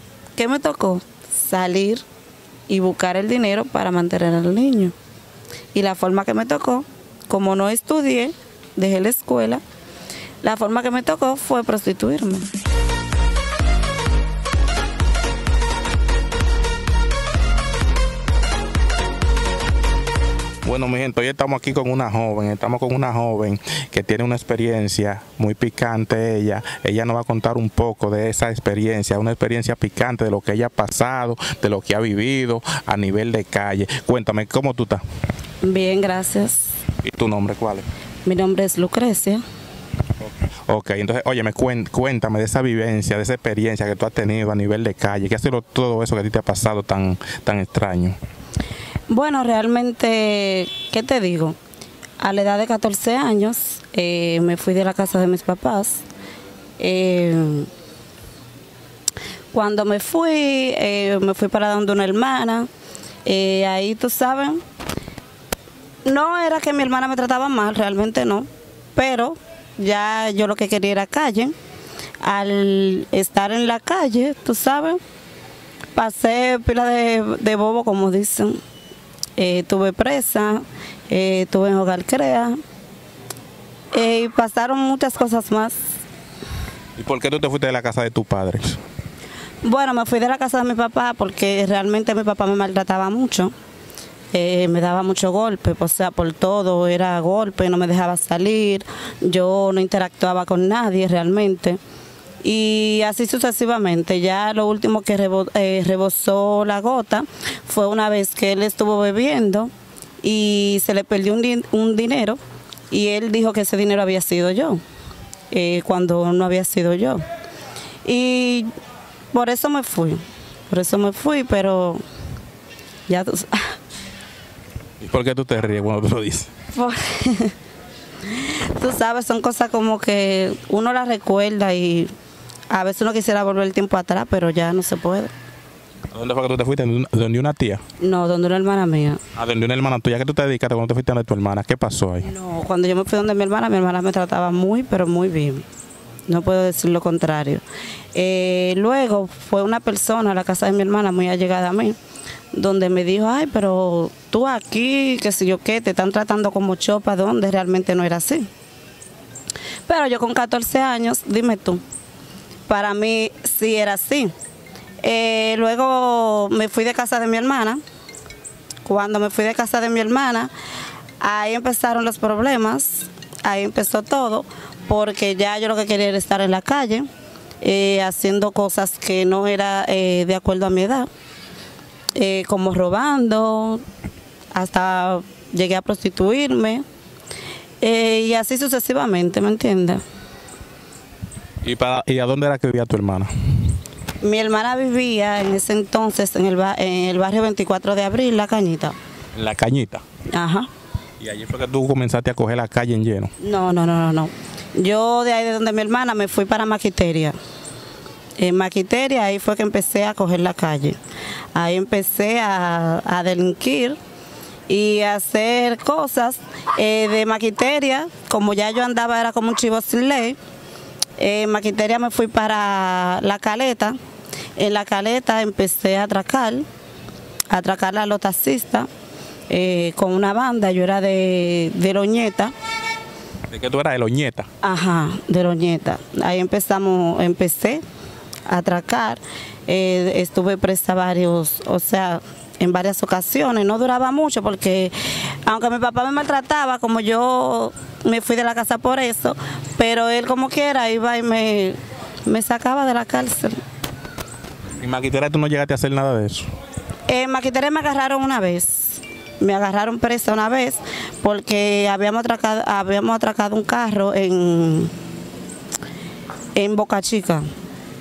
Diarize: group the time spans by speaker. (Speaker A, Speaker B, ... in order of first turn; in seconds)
Speaker A: 0.3-2.0, 2.7-4.9, 5.7-9.6, 10.4-12.5, 35.6-36.7, 38.2-39.4, 49.1-51.6, 52.2-56.0, 56.8-57.7, 59.5-62.7, 63.2-64.6, 66.0-71.5, 72.2-75.0, 75.9-78.6, 79.4-82.6, 83.9-85.8, 89.6-93.5, 94.3-101.8, 102.4-109.7, 110.2-112.4, 112.9-114.8, 115.5-117.2, 118.0-118.7, 119.3-122.0, 123.1-123.7, 126.7-127.5, 128.2-132.1, 132.7-135.3, 138.0-139.2, 142.2-145.6, 146.3-147.6, 148.1-151.9, 152.5-158.5, 159.9-161.8, 162.7-164.3, 165.0-167.8, 168.8-170.5, 171.2-177.1, 177.6-181.1, 182.2-183.8, 184.5-186.8, 187.8-190.0, 194.2-198.9, 200.3-200.7, 203.4-207.3, 208.4-211.0, 211.5-214.0, 214.7-220.4, 221.2-224.0, 224.6-226.6, 227.5-228.9, 229.5-232.5, 234.6-237.8, 238.5-253.6, 257.1-264.9, 266.5-267.4
Speaker B: 20.6-35.0, 37.0-37.8, 40.2-48.2, 87.0-88.8, 125.0-126.5, 136.1-137.8, 139.3-142.3, 191.6-193.8, 199.3-200.0, 201.2-203.3, 233.5-234.5, 254.8-256.5